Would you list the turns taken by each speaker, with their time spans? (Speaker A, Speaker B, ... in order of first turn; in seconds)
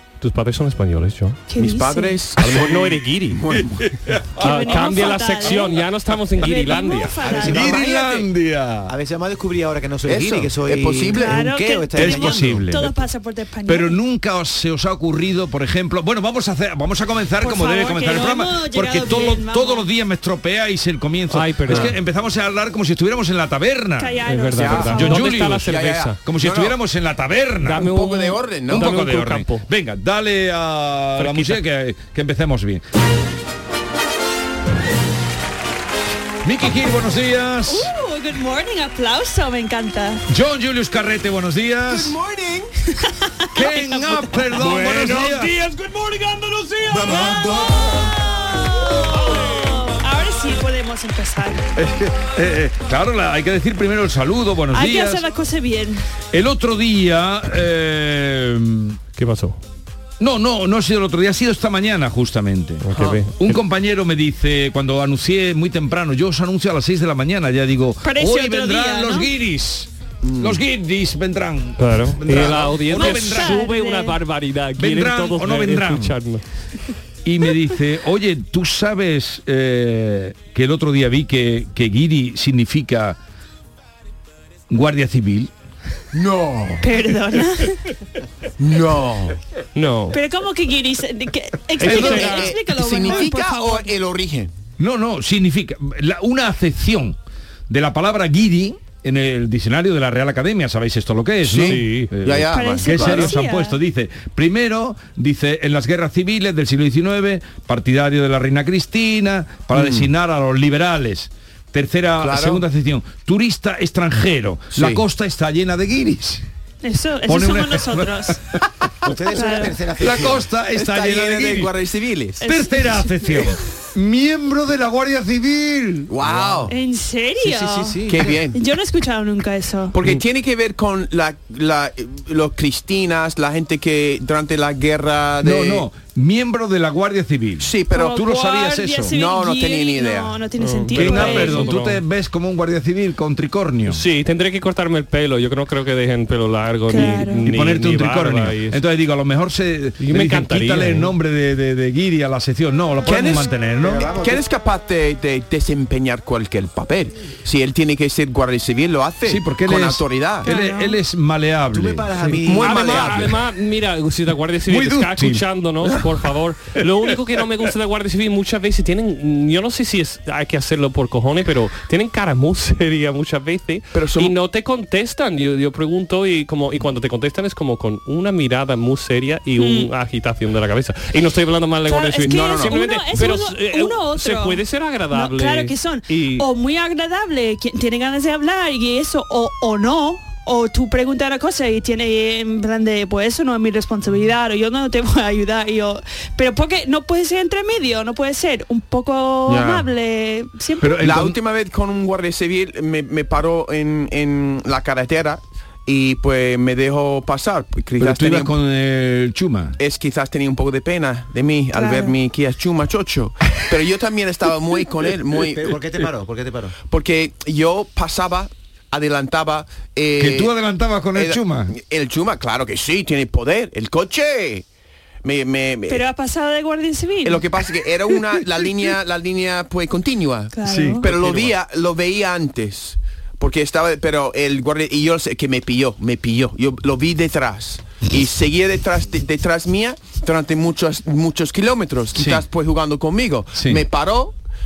Speaker A: 0.2-1.4, 2.4-3.4, 4.4-7.2, 21.3-22.0, 24.2-26.2, 27.6-29.7, 31.2-31.6, 44.5-47.4, 49.3-49.8, 59.2-59.6, 62.8-63.6, 71.8-76.4, 89.8-90.2, 91.9-92.5, 101.6-102.1, 140.6-142.0, 143.9-148.8, 150.0-151.1, 162.2-186.4
Speaker B: 1.5-2.2, 4.4-5.8, 6.4-7.7, 11.1-14.0, 17.4-19.9, 24.0-25.3, 37.7-40.2, 43.0-44.4, 47.0-51.6, 54.7-56.0, 68.0-69.3, 72.9-74.2, 86.8-87.8, 90.1-93.9, 102.5-103.8, 116.8-118.4, 119.3-119.7, 122.4-123.5, 126.7-128.0, 128.5-129.9, 137.9-141.7, 146.9-147.4, 160.4-161.0, 179.6-179.9, 181.9-184.6, 185.1-201.0, 211.7-212.2, 225.9-227.4, 230.5-231.0
Speaker C: 1.6-3.9, 7.5-8.3, 10.1-11.5, 24.6-26.8, 27.7-29.0, 41.9-42.7, 62.9-63.2, 70.2-70.6, 86.1-86.9, 88.6-89.4, 91.8-94.5, 101.4-103.4, 109.7-110.1, 112.2-112.6, 114.7-115.0, 120.8-122.5, 126.1-126.7, 128.1-128.6, 129.9-135.9, 137.6-138.2, 139.1-140.4, 153.0-153.5, 154.1-160.5, 162.4-163.4, 173.9-174.3, 182.2-182.8, 199.5-199.9, 201.0-208.6, 209.8-215.8, 216.9-220.5, 221.2-224.7, 225.2-226.0, 227.2-244.3
Speaker D: 3.6-5.1, 7.4-8.9, 11.9-12.9, 13.7-24.2, 24.9-25.7, 26.2-27.9, 28.7-32.8, 36.5-37.9, 40.3-42.2, 43.5-45.6, 51.8-55.2, 56.3-59.0, 60.2-73.7, 74.8-76.2, 77.2-83.2, 84.7-85.5, 91.8-92.4, 94.8-97.2, 97.7-116.4, 117.3-118.6, 120.0-121.7, 122.4-126.6, 127.5-128.3, 135.4-139.1, 140.9-144.0, 147.0-154.1, 159.3-162.1, 164.7-165.4, 200.8-201.4, 208.0-209.8, 220.2-221.7, 230.7-231.5, 242.2-242.4, 243.6-243.9
Speaker E: 7.2-7.9, 8.9-12.6, 119.0-120.5, 128.1-128.4, 153.8-154.4, 161.7-163.3, 215.4-216.8